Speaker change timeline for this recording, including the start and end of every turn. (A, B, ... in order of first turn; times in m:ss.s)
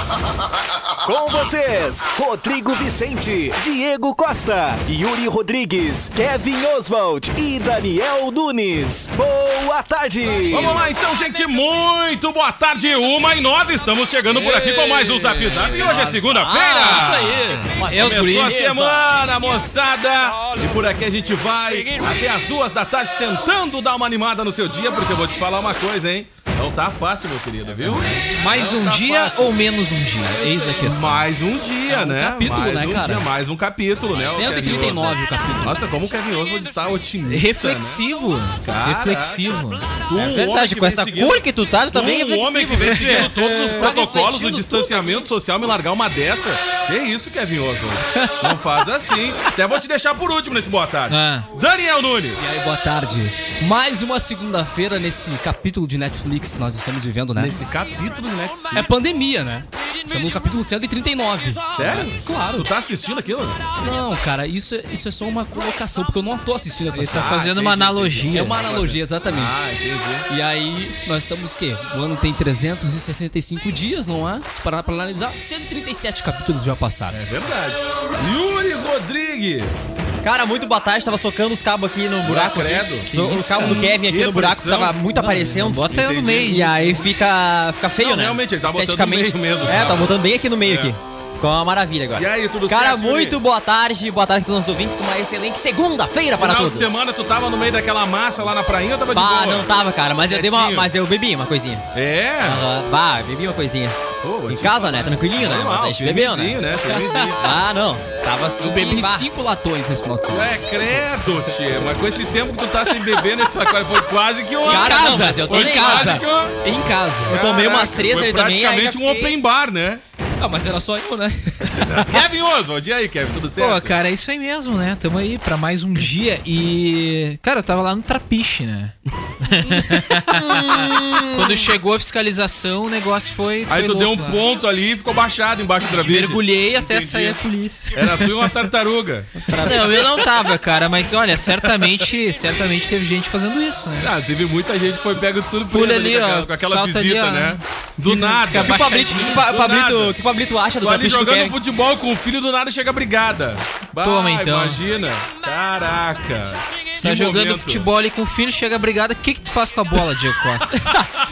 0:01.0-0:10.8 A
0:10.5-0:29.6 B
0:14.3-0:19.0 C
0:17.9-0:18.6 D
0:28.3-0:31.3 D
0:30.4-0:38.0 B
0:31.9-0:33.3 C
0:34.2-0:35.8 C
0:37.3-0:39.8 D
0:38.6-0:52.4 B
0:40.1-0:45.3 E
0:43.1-0:43.8 D
0:51.1-0:51.5 D
0:52.4-0:57.6 C
0:57.3-0:58.9 B
0:58.7-1:02.7 C
1:01.7-1:03.6 B
1:03.8-1:07.5 C
1:06.9-1:08.6 D
1:06.9-1:10.3 B
1:08.3-1:09.7 C
1:10.3-1:17.2 C
1:17.1-1:20.0 B
1:20.2-1:25.9 E
1:22.2-1:26.8 B
1:23.1-1:23.8 D
1:25.4-1:27.0 D
1:26.4-1:37.1 E
1:28.0-1:31.0 B
1:32.1-1:33.4 B
1:36.4-1:40.9 B
1:39.1-1:41.8 E
1:41.9-1:42.7 B
1:42.4-1:44.0 E
1:44.2-1:47.6 B
1:44.5-1:46.6 E
1:46.8-1:47.4 C
1:47.4-1:49.3 E
1:48.6-1:50.9 C
1:50.3-1:56.6 B
1:54.6-1:57.4 C
1:54.6-1:56.2 E
1:57.2-2:00.0 B
1:57.3-1:59.3 E
2:00.4-2:01.8 C
2:01.7-2:04.0 B
2:03.6-2:14.4 D
2:10.3-2:11.7 E
2:13.7-2:17.4 B
2:15.9-2:18.4 D
2:17.9-2:19.4 B
2:19.4-2:20.3 E
2:19.6-2:24.1 D
2:21.6-2:21.9 B
2:24.0-2:30.2 B
2:25.7-2:29.3 D
2:28.5-2:31.6 E
2:30.8-2:37.9 B
2:34.0-2:34.8 D
2:37.0-2:40.9 D